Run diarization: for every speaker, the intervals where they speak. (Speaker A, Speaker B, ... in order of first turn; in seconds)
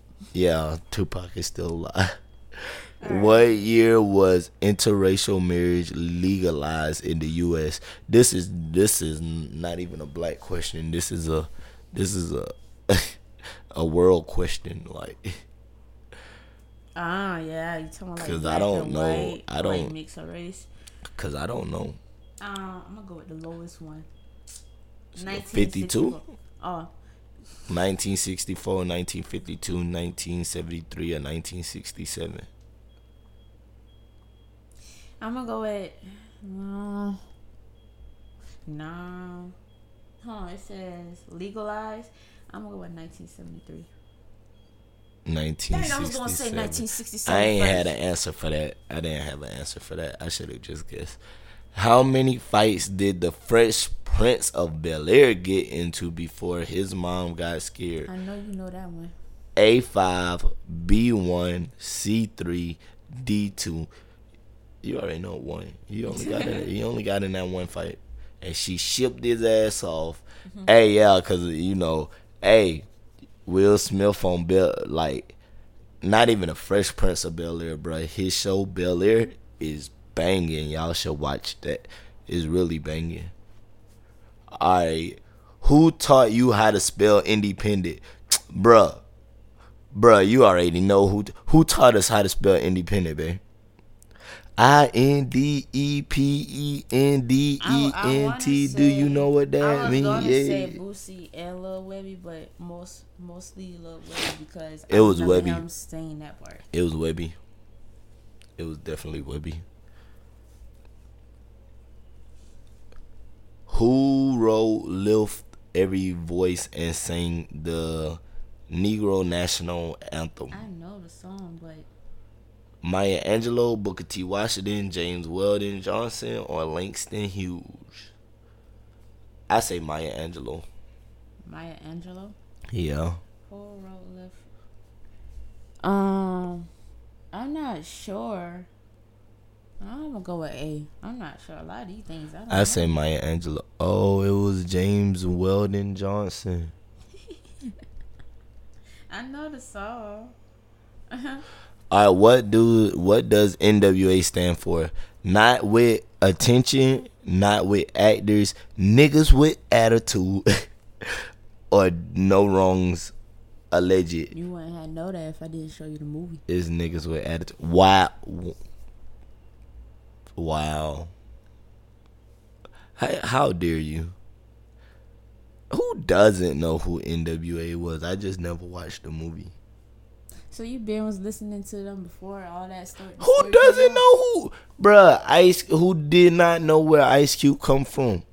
Speaker A: 0.3-13.2, 13.7-15.4, 18.2-19.9, 21.2-22.0, 25.1-26.2, 27.7-32.5, 45.3-51.2, 51.7-58.1, 59.6-63.9, 64.8-72.9, 73.5-75.4, 76.0-83.3, 84.6-89.0, 89.9-93.4, 94.6-100.8, 104.9-105.6, 106.7-107.4, 108.6-109.6, 113.7-120.6, 122.8-128.1, 129.5-130.7, 132.7-133.2, 142.5-146.7, 151.9-163.1, 163.7-164.3, 166.5-168.6, 170.4-171.1, 173.0-174.2, 175.7-179.5, 183.2-188.2
Speaker B: 3.0-3.6, 17.0-20.7, 22.4-24.1, 25.2-26.9, 35.2-37.2, 38.7-39.5, 40.2-43.9, 45.7-48.0, 58.1-59.1, 66.1-66.7, 97.6-106.7, 120.5-121.9, 131.4-132.4, 133.5-134.5, 135.8-136.7, 137.3-138.7, 139.8-142.9, 149.1-150.3, 151.1-151.4, 164.3-166.4, 180.5-184.0